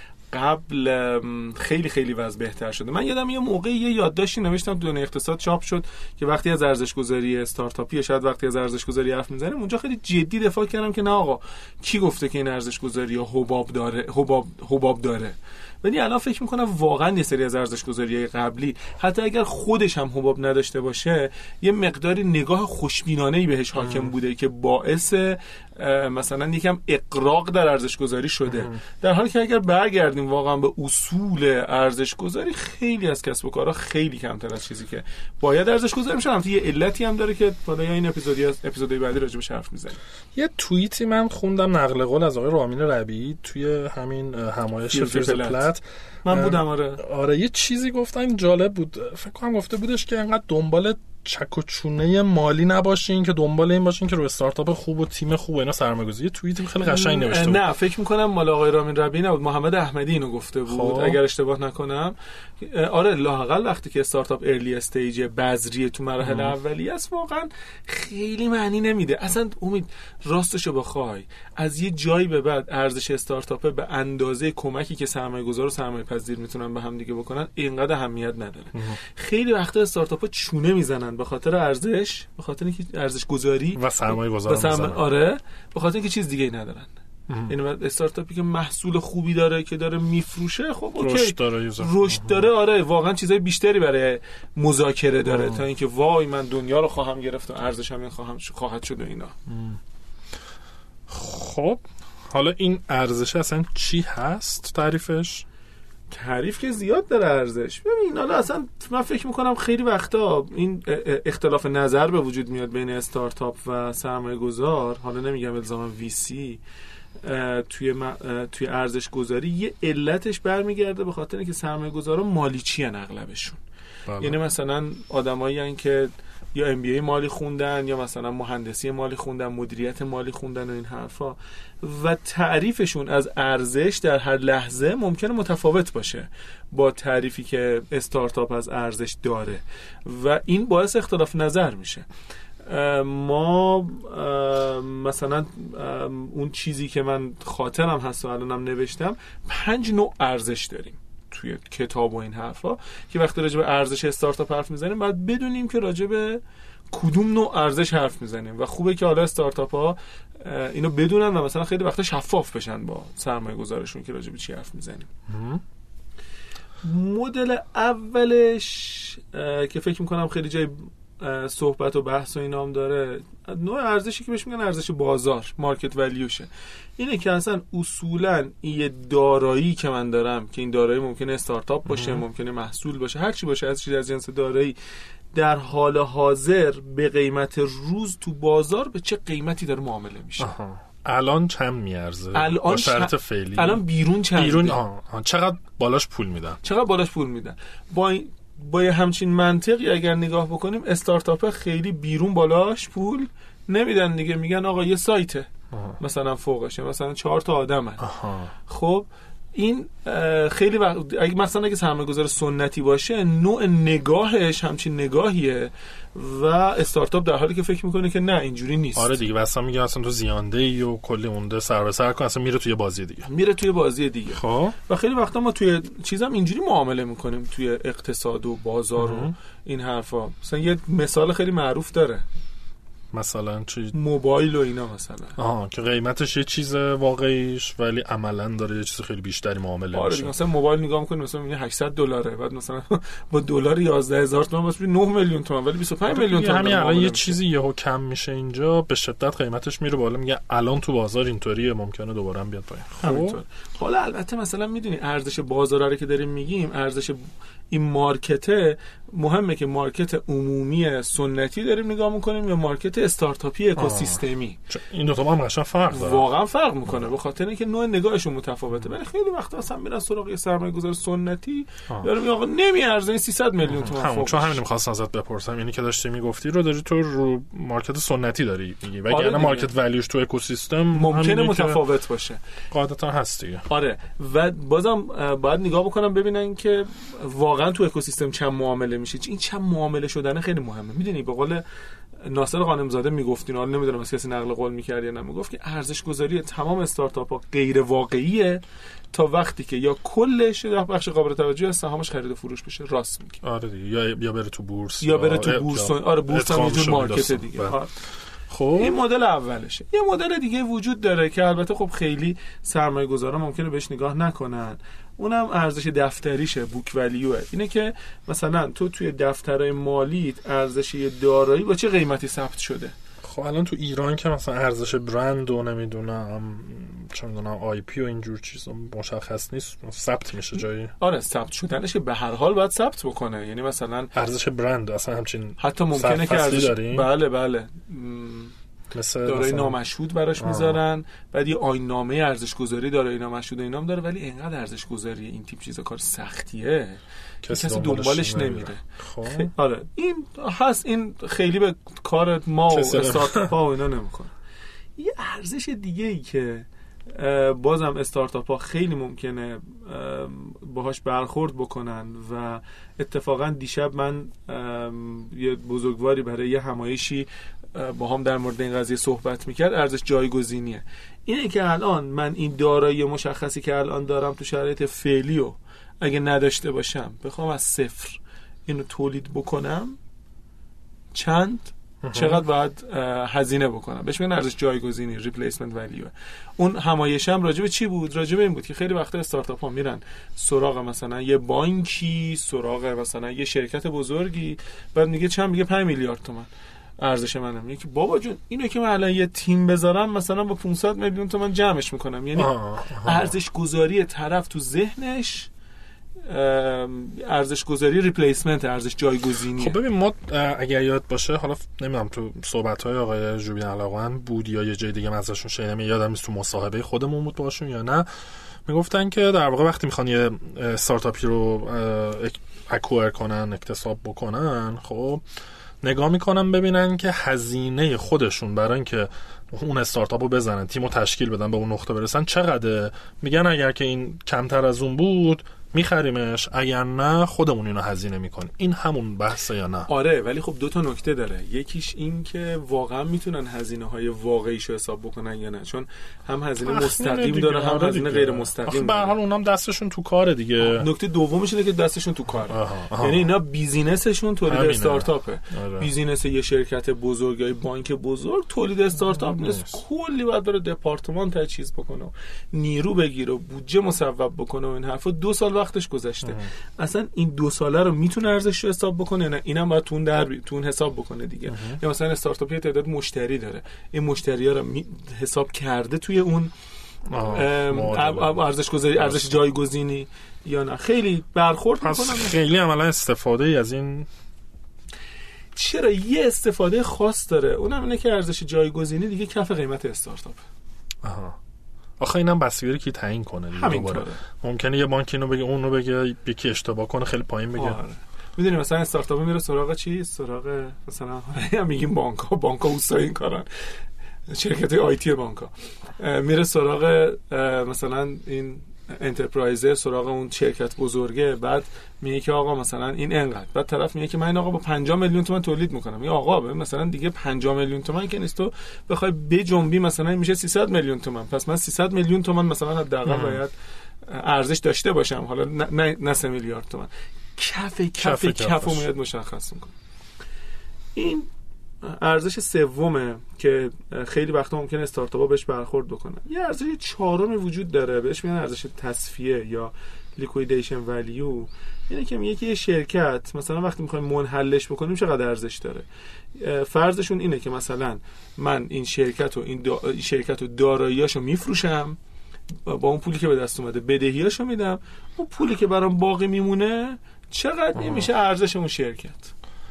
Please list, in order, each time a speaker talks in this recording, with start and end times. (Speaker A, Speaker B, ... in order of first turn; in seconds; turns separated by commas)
Speaker A: 0.3-40.0, Speaker B: 23.8-24.1, Speaker B: 28.5-28.8, Speaker B: 40.3-57.6, Speaker A: 44.9-45.7, Speaker A: 46.2-47.0, Speaker A: 56.8-86.9, Speaker B: 60.7-61.2, Speaker B: 66.2-66.5, Speaker B: 83.8-85.0, Speaker B: 87.3-87.5, Speaker A: 87.5-99.3, Speaker B: 91.0-92.5, Speaker B: 95.2-95.6, Speaker B: 99.5-99.8, Speaker B: 101.1-105.4, Speaker A: 106.1-116.6, Speaker A: 117.2-123.6, Speaker B: 124.1-124.4, Speaker A: 124.2-142.1, Speaker A: 142.7-156.4, Speaker A: 156.9-165.1, Speaker B: 165.3-165.6, Speaker A: 166.8-184.7, Speaker B: 181.9-182.2, Speaker A: 185.3-190.5, Speaker B: 190.4-193.8, Speaker A: 192.3-194.8, Speaker B: 194.3-196.6, Speaker A: 196.6-205.5, Speaker B: 205.7-206.0, Speaker A: 206.0-208.1, Speaker B: 208.0-208.5, Speaker A: 208.7-219.2, Speaker B: 218.9-223.3, Speaker A: 223.2-232.2, Speaker B: 224.3-224.8, Speaker B: 229.0-229.3, Speaker B: 233.1-233.9, Speaker A: 233.9-235.3, Speaker B: 235.3-240.3, Speaker A: 239.9-247.4, Speaker B: 246.1-253.4, Speaker A: 253.0-264.6, Speaker B: 263.8-266.3, Speaker A: 265.9-274.6, Speaker B: 273.7-281.8, Speaker A: 279.1-279.7, Speaker A: 280.9-282.4, Speaker B: 282.7-283.6, Speaker A: 283.7-291.6, Speaker A: 292.2-298.6, Speaker A: 299.1-303.4, Speaker B: 303.4-307.8, Speaker A: 305.0-307.9, Speaker B: 308.5-309.0, Speaker A: 308.8-322.9, Speaker B: 323.2-330.9, Speaker A: 331.0-334.1, Speaker B: 334.1-337.1, Speaker A: 335.6-338.5, Speaker B: 338.9-339.8, Speaker A: 339.2-354.3, Speaker B: 340.4-340.8, Speaker B: 347.4-349.5, Speaker B: 352.7-353.5, Speaker A: 355.0-380.0, Speaker A: 381.1-396.5, Speaker B: 382.0-382.4, Speaker A: 397.0-405.5, Speaker B: 402.4-403.3, Speaker A: 406.3-409.8, Speaker B: 409.6-418.1, Speaker B: 418.6-425.2, Speaker B: 425.8-439.9, Speaker A: 439.9-449.1, Speaker B: 446.6-450.9, Speaker A: 450.6-476.5, Speaker B: 452.5-453.3, Speaker B: 454.5-455.9, Speaker B: 459.4-459.8, Speaker B: 471.5-471.8, Speaker B: 477.1-478.4, Speaker A: 477.3-482.4, Speaker B: 478.9-479.4, Speaker B: 481.8-484.1, Speaker A: 485.5-490.4, Speaker B: 491.0-491.4, Speaker B: 492.0-497.8, Speaker A: 493.5-494.2, Speaker A: 497.6-503.5, Speaker A: 504.3-523.5, Speaker B: 523.0-523.4, Speaker A: 524.1-529.7, Speaker B: 528.0-528.9, Speaker A: 530.9-531.3, Speaker A: 531.8-545.8, Speaker A: 546.4-552.0, Speaker A: 552.6-559.3, Speaker B: 557.8-558.1